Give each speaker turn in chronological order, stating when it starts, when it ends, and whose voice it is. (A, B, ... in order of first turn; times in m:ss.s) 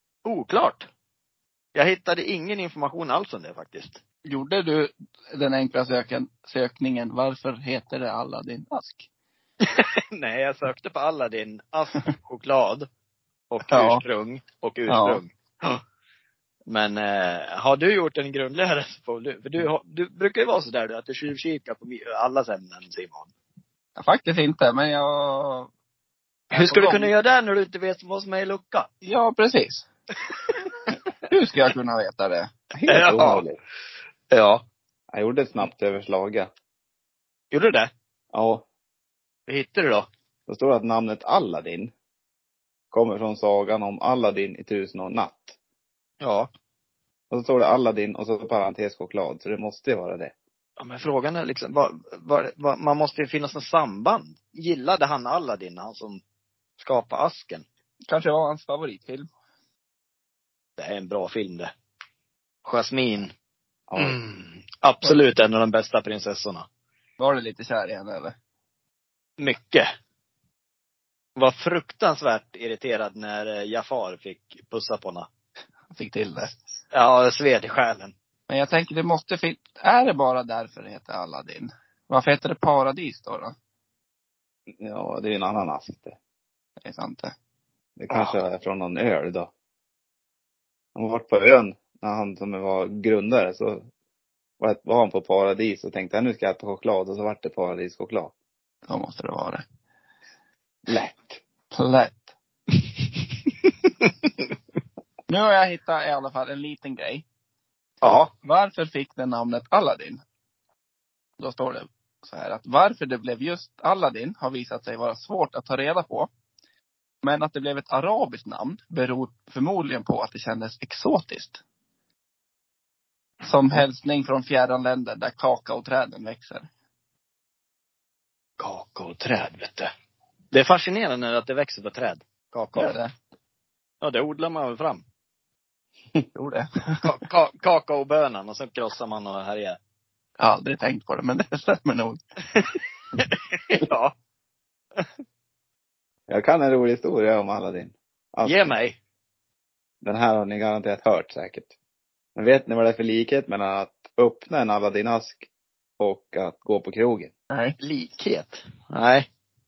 0:00.2-0:00.9 A
0:01.7-0:04.0 A
0:04.2-0:09.1 B
0:09.6-0:12.9 A
0:13.5-0:15.8 A
0:13.7-0:14.0 B
0:14.9-0:15.2 B
0:16.7-0:23.3 A
0:24.0-0:25.7 B
0:26.5-0:27.1 B
0:26.5-0:28.9 A
0:29.0-0:29.8 B
0:31.3-0:32.5 B
0:32.7-0:33.6 C
0:32.9-0:33.4 A
0:34.3-0:34.6 A
0:35.1-0:36.5 C
0:37.5-0:37.9 A
0:38.3-0:38.6 C
0:39.5-0:40.1 A
0:40.5-0:41.9 C
0:42.9-0:45.6 C
0:46.2-0:46.5 A
0:47.3-0:50.3 C
0:50.8-0:56.2 A
0:56.8-0:57.6 A
0:58.1-0:59.3 B
1:00.8-1:01.7 A
1:02.6-1:03.3 A
1:03.9-1:04.2 C
1:04.0-1:06.6 A
1:07.2-1:08.3 B
1:09.4-1:09.9 A
1:11.4-1:15.3 A
1:15.9-1:16.5 B
1:16.9-1:18.1 A
1:18.5-1:23.5 B
1:24.8-1:26.2 C
1:26.8-1:27.3 B
1:28.0-1:29.5 C
1:30.9-1:33.8 C
1:34.6-1:38.3 C
1:38.9-1:39.6 B
1:40.8-1:41.4 C
1:41.7-1:42.3 B
1:45.3-1:47.2 B
1:48.0-1:48.3 A
1:48.0-1:50.2 B
1:51.4-1:56.3 B
1:57.2-2:01.6 B
2:03.4-2:06.7 B
2:08.6-2:09.9 A
2:10.5-2:13.0 A
2:12.8-2:13.1 B
2:14.0-2:15.0 A
2:16.3-2:17.0 B
2:17.0-2:19.8 A
2:20.4-2:22.2 B
2:22.6-2:24.1 A
2:26.3-2:28.7 C
2:28.4-2:29.0 A
2:30.0-2:31.7 C
2:32.4-2:35.5 C
2:36.0-2:37.3 C
2:37.8-2:39.2 A